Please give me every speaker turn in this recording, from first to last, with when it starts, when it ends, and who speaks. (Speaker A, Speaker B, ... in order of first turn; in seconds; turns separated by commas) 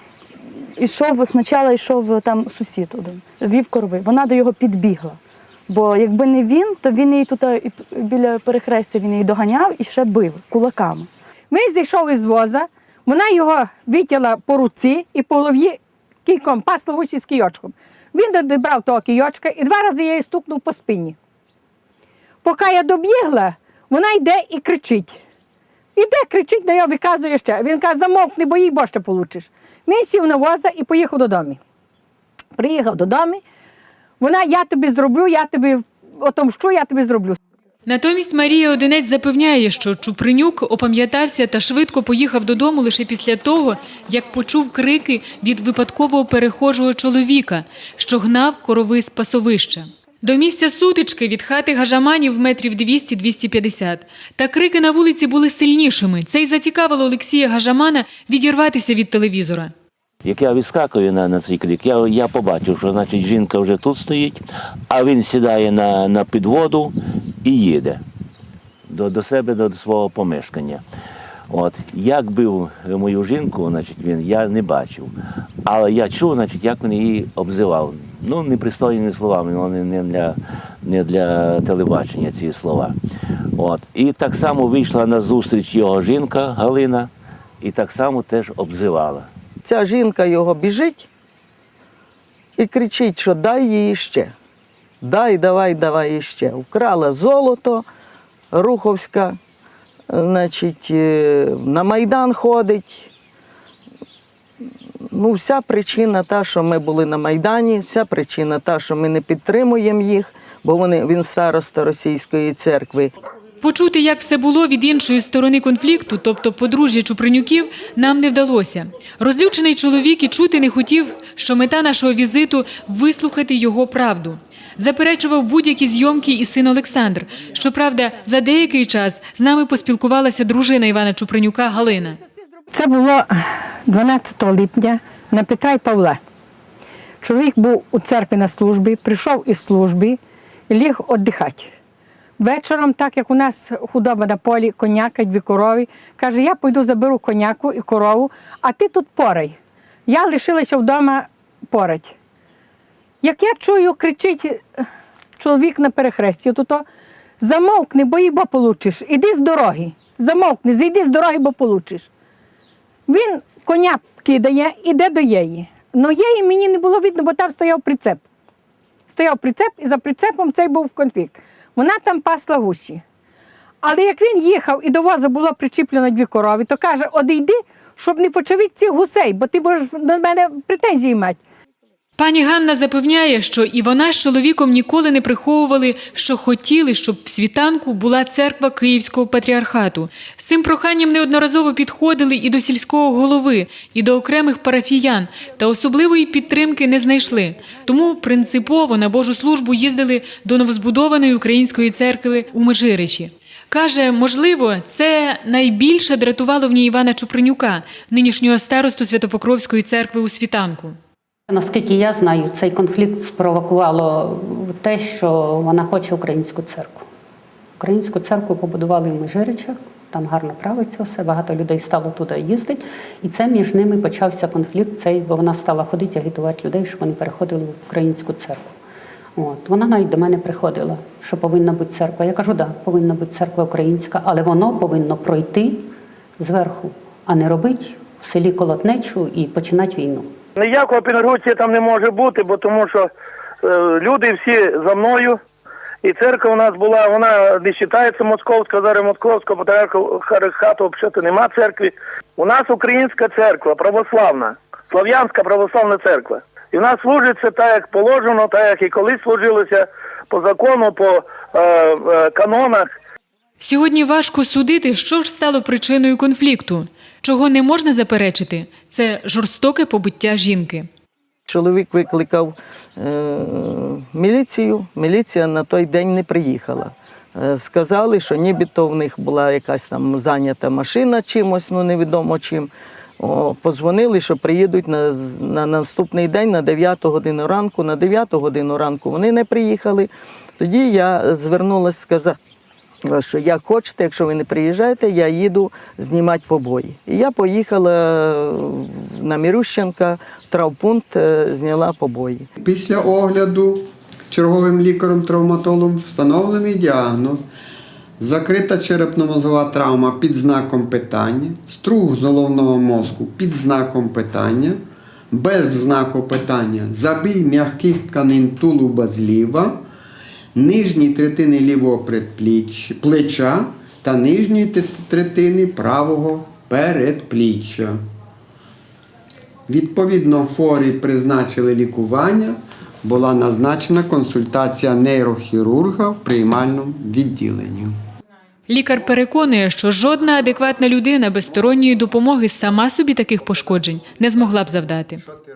Speaker A: 0.8-11.1, Speaker B: 11.5-21.1, Speaker B: 22.4-25.2, Speaker B: 25.9-31.6, Speaker B: 32.6-33.4, Speaker B: 34.2-37.4, Speaker C: 37.9-59.7, Speaker D: 60.2-68.0, Speaker D: 68.9-70.8, Speaker D: 71.5-75.1, Speaker D: 75.6-83.0, Speaker D: 83.5-87.1, Speaker D: 87.6-89.3, Speaker E: 89.6-91.1, Speaker E: 92.6-94.3, Speaker E: 95.0-97.8, Speaker E: 98.5-99.4, Speaker E: 100.1-103.1, Speaker E: 105.1-113.1, Speaker C: 113.6-132.2, Speaker B: 132.7-136.2, Speaker B: 137.2-140.2, Speaker B: 140.7-141.7, Speaker B: 142.4-149.6, Speaker B: 150.1-152.1, Speaker B: 153.2-154.8, Speaker B: 155.4-156.8, Speaker B: 157.4-162.1, Speaker B: 163.1-168.2, Speaker B: 169.1-173.0, Speaker B: 173.8-181.4, Speaker C: 182.2-211.0, Speaker F: 211.5-217.0, Speaker F: 217.8-228.7, Speaker F: 229.3-235.9, Speaker F: 236.4-240.3, Speaker G: 240.6-243.1, Speaker G: 243.6-245.4, Speaker G: 246.0-262.9, Speaker C: 263.6-270.9, Speaker E: 271.5-292.4, Speaker E: 293.0-302.5, Speaker H: 302.6-307.4, Speaker H: 308.2-319.8, Speaker H: 320.5-328.0, Speaker H: 329.7-337.9, Speaker C: 338.7-345.2